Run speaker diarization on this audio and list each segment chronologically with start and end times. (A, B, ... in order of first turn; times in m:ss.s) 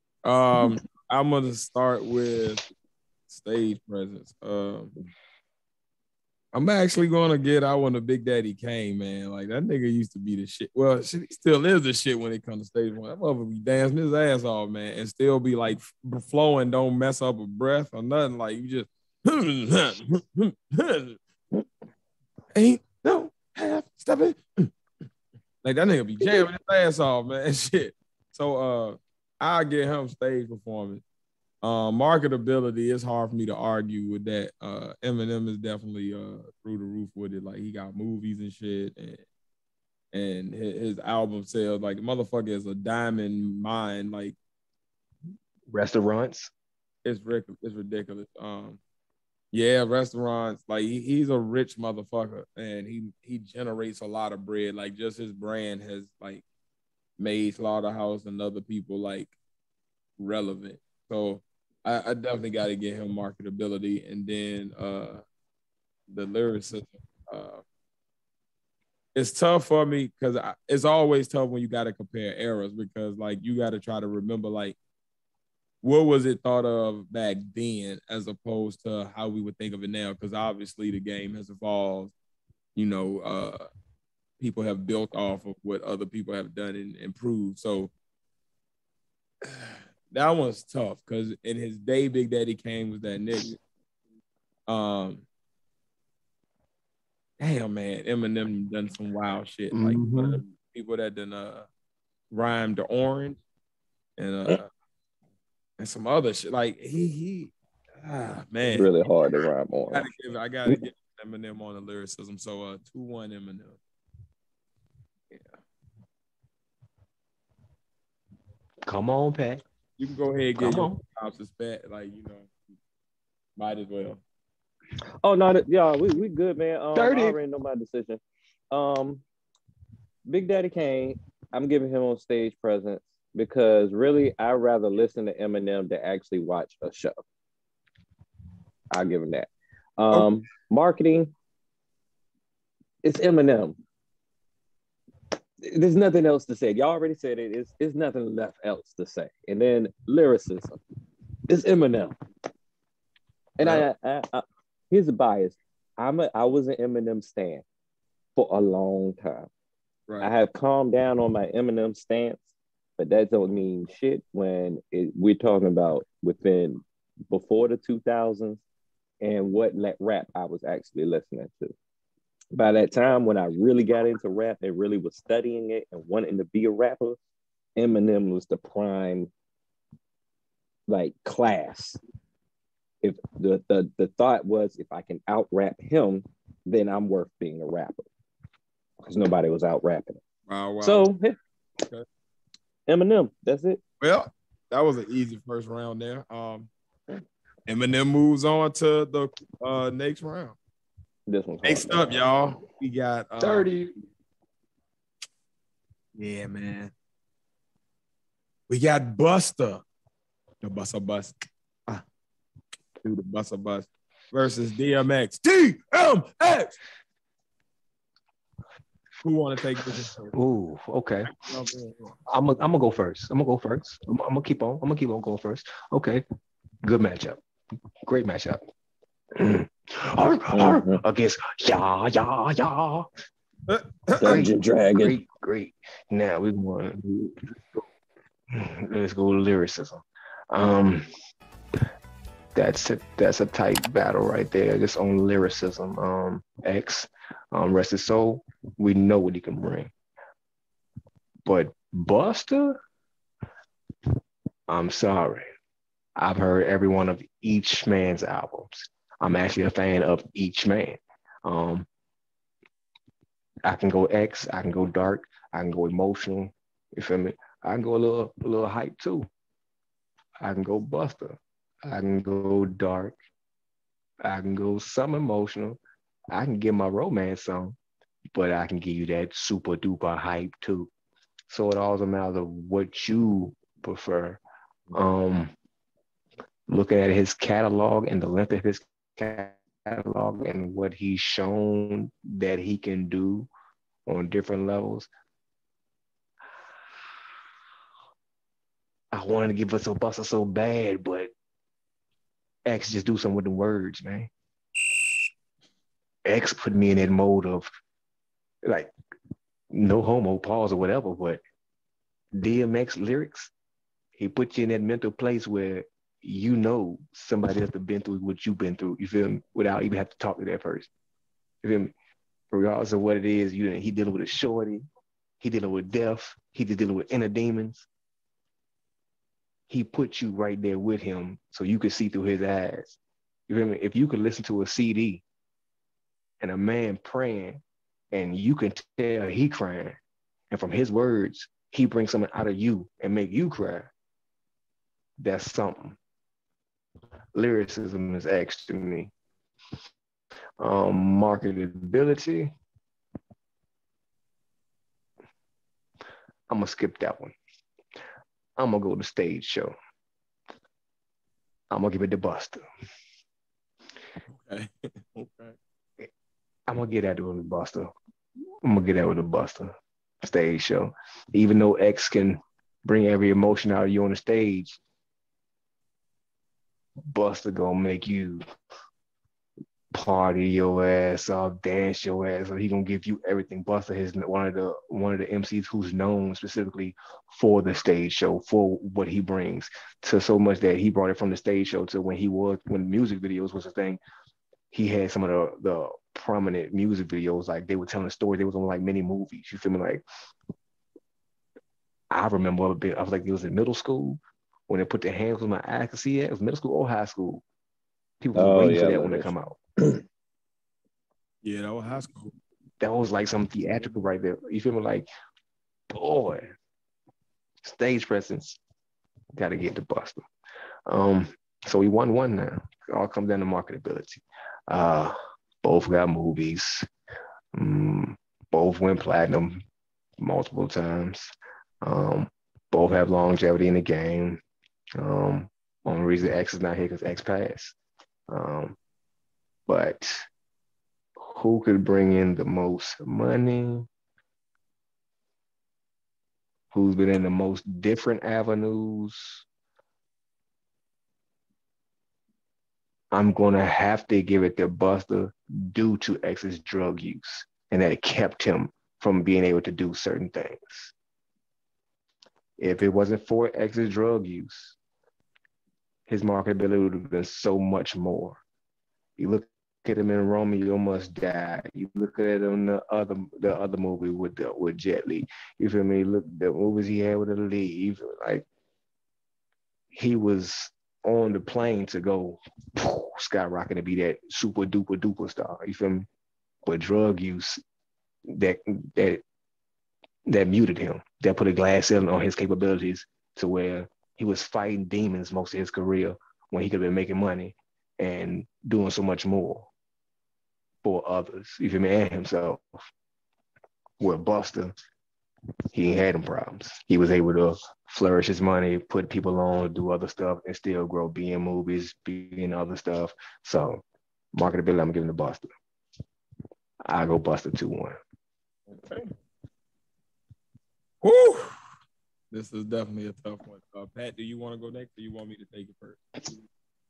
0:00.2-0:02.6 A
0:03.3-0:04.9 A
0:06.5-0:21.2 A
0:22.5-0:24.7 A
0:25.6-0:31.0 A
0:31.6-0:39.2 A
0:40.1-0:44.3 A
0:45.7-0:46.5 B
0:47.0-0:48.8 A
0:49.5-0:56.4 A
0:57.2-0:59.3 A
1:00.2-1:05.2 A
1:06.1-1:07.6 A
1:09.1-1:14.8 A
1:15.8-1:22.1 A
1:22.8-1:23.6 A
1:24.4-1:27.9 A
1:29.4-1:33.6 A
1:34.7-1:35.2 A
1:37.4-1:41.7 A
1:39.7-1:40.4 B
1:42.3-1:43.4 A
1:44.2-1:44.7 A
1:45.8-1:48.9 A
1:48.7-1:50.0 C
1:49.9-1:53.8 A
1:58.8-1:59.6 B
2:00.0-2:02.5 A
2:00.6-2:01.0 B
2:03.6-2:04.2 A
2:05.2-2:09.2 C
2:06.9-2:07.4 B
2:10.3-2:17.2 C
2:18.9-2:21.3 C
2:23.0-2:23.8 C
2:25.6-2:30.8 C
2:31.5-2:32.1 C
2:33.6-2:37.6 C
2:33.6-2:33.9 A
2:38.4-2:39.5 C
2:40.2-2:42.4 C
2:43.0-2:48.6 C
2:49.2-2:51.7 C
2:52.5-2:57.2 C
2:57.8-2:59.3 C
3:00.9-3:02.0 C
3:03.0-3:08.1 C
3:09.0-3:10.2 C
3:10.5-3:11.1 A
3:10.8-3:11.4 C
3:12.9-3:13.8 C
3:14.0-3:16.7 A
3:17.7-3:20.6 A
3:21.3-3:22.2 C
3:21.6-3:23.7 A
3:23.4-3:23.9 B
3:26.2-3:26.9 A
3:28.7-3:29.8 A
3:30.6-3:31.3 A
3:33.0-3:36.8 A
3:39.2-3:40.4 A
3:40.3-3:41.3 B
3:41.2-3:42.2 A
3:42.3-3:46.2 B
3:46.8-3:47.4 B
3:48.1-3:48.6 B
3:49.4-3:53.1 B
3:50.5-3:51.0 C
3:53.7-3:54.5 A
3:54.2-3:55.2 C
3:54.2-3:57.4 B
3:58.5-4:01.0 B
4:02.5-4:09.9 B
4:11.4-4:12.8 B
4:14.7-4:15.5 B
4:16.2-4:21.9 B
4:23.6-4:29.3 B
4:30.4-4:33.2 B
4:34.2-4:35.8 B
4:36.3-4:37.8 B
4:38.3-4:40.9 B
4:41.5-4:44.4 B
4:44.9-4:45.5 B
4:46.7-4:53.5 B
4:54.1-4:55.1 B
4:59.1-5:01.3 B
5:02.6-5:04.3 B
5:06.2-5:07.7 B
5:08.6-5:08.9 B
5:09.7-5:11.4 B
5:12.4-5:13.5 B
5:14.2-5:20.9 B
5:21.6-5:21.9 B
5:22.5-5:24.8 B
5:25.4-5:27.9 B
5:29.7-5:33.0 B
5:33.5-5:35.2 B
5:36.4-5:40.0 B
5:40.5-5:43.9 B
5:45.2-5:46.0 B
5:47.3-5:49.1 B
5:50.6-5:52.5 B
5:56.5-5:57.4 B
5:58.6-5:59.7 B
6:01.7-6:02.6 B
6:04.3-6:05.6 A
6:06.7-6:07.9 B
6:08.6-6:14.8 B
6:17.1-6:18.4 B
6:19.9-6:34.0 B
6:34.7-6:40.0 B
6:42.1-6:47.4 B
6:48.2-6:49.6 B
6:48.3-6:49.3 C
6:51.4-6:52.3 A
6:52.8-6:55.1 B
6:55.9-6:56.5 B
6:57.6-6:58.6 B
6:59.3-7:00.2 B
7:00.9-7:06.9 B
7:07.5-7:09.6 B
7:10.2-7:14.4 B
7:15.0-7:17.8 B
7:18.3-7:18.8 B
7:19.7-7:20.2 B
7:21.2-7:23.9 B
7:26.7-7:29.4 B
7:33.1-7:40.9 B
7:42.6-7:44.8 B
7:46.1-7:48.4 B
7:49.2-7:58.4 B
7:59.9-8:06.1 B
8:06.6-8:07.6 B
8:08.3-8:09.2 B
8:10.3-8:19.7 B
8:20.8-8:22.8 B
8:24.0-8:24.7 B
8:25.7-8:33.8 B
8:34.4-8:35.5 B
8:36.8-8:38.0 B
8:41.0-8:41.5 A
8:42.3-8:46.0 A